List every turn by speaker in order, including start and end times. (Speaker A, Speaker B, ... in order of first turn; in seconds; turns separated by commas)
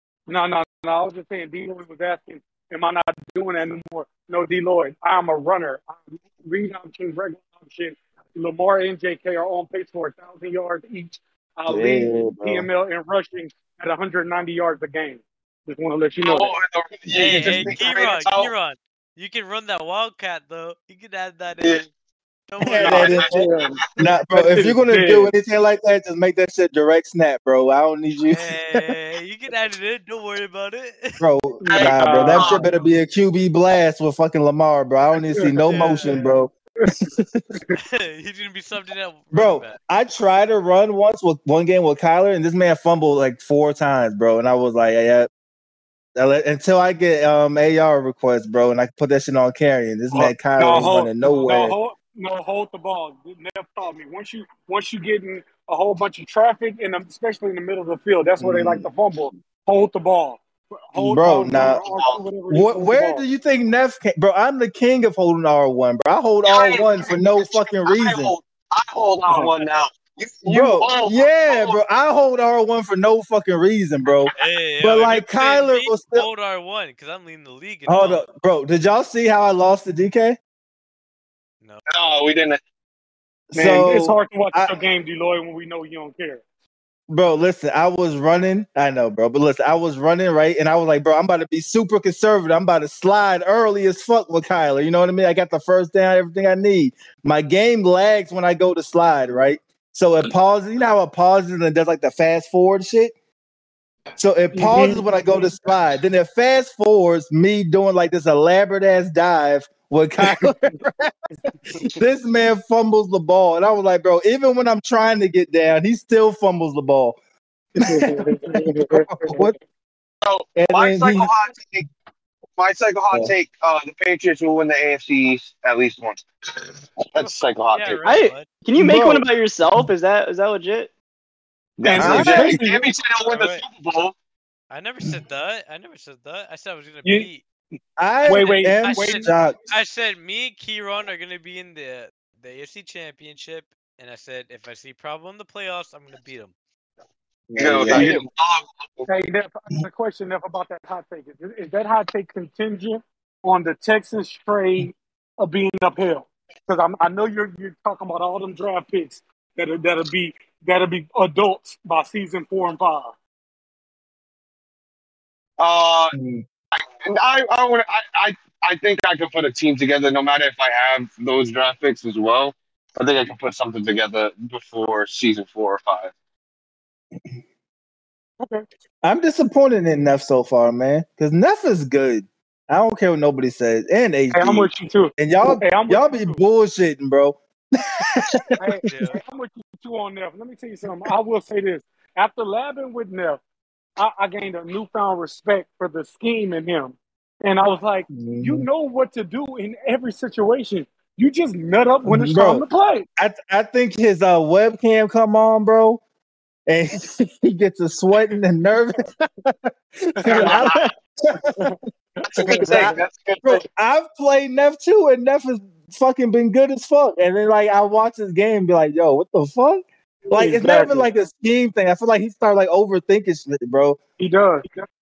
Speaker A: 0.3-16.5, Speaker B: 11.7-12.7, Speaker C: 16.2-18.5, Speaker D: 17.1-21.9, Speaker D: 22.5-23.3, Speaker B: 22.6-28.9, Speaker C: 22.8-23.3, Speaker A: 23.1-25.3, Speaker D: 28.3-31.2, Speaker B: 31.2-36.5, Speaker A: 31.6-32.7, Speaker C: 31.7-32.6, Speaker A: 35.3-37.0, Speaker D: 35.7-36.2, Speaker B: 37.1-37.4, Speaker D: 37.8-39.8, Speaker B: 39.3-45.3, Speaker B: 46.1-51.7, Speaker A: 50.1-63.2, Speaker B: 58.4-58.9, Speaker B: 61.0-61.8, Speaker C: 61.6-62.2, Speaker B: 62.5-68.3, Speaker C: 66.4-71.8, Speaker A: 69.3-69.6, Speaker B: 70.5-76.3, Speaker D: 74.3-78.2, Speaker B: 77.9-80.4, Speaker D: 81.6-81.9, Speaker C: 81.9-82.6, Speaker B: 83.5-84.8, Speaker A: 83.5-86.4, Speaker B: 87.1-103.1, Speaker B: 104.2-111.1, Speaker A: 104.5-105.0, Speaker B: 111.8-117.2, Speaker A: 117.8-119.5, Speaker B: 117.8-118.1, Speaker B: 118.9-119.5, Speaker C: 120.2-121.8, Speaker B: 120.5-121.3, Speaker C: 122.6-126.2, Speaker C: 127.0-128.0, Speaker D: 127.2-128.5, Speaker E: 128.0-130.9, Speaker B: 128.8-129.8, Speaker C: 131.8-134.1, Speaker A: 131.8-132.9, Speaker B: 131.9-132.6, Speaker D: 133.2-133.6, Speaker D: 134.7-137.4, Speaker A: 137.0-137.3, Speaker B: 138.0-139.6, Speaker A: 138.2-139.3, Speaker D: 138.2-146.5, Speaker B: 147.5-148.1, Speaker C: 147.6-149.1, Speaker D: 147.8-148.2, Speaker A: 149.1-163.1, Speaker C: 165.6-166.1, Speaker B: 166.1-166.4, Speaker C: 166.7-176.1, Speaker A: 178.4-178.6, Speaker B: 179.0-188.8, Speaker A: 184.3-186.4, Speaker A: 188.6-193.4, Speaker D: 188.8-189.2, Speaker A: 194.0-203.1, Speaker B: 198.1-198.7, Speaker B: 202.1-202.6, Speaker B: 203.2-206.0, Speaker B: 206.7-210.8, Speaker A: 210.2-210.8, Speaker C: 210.3-210.8, Speaker A: 211.6-212.9, Speaker C: 212.3-213.6, Speaker B: 212.4-224.0, Speaker A: 220.2-221.1, Speaker A: 224.2-224.8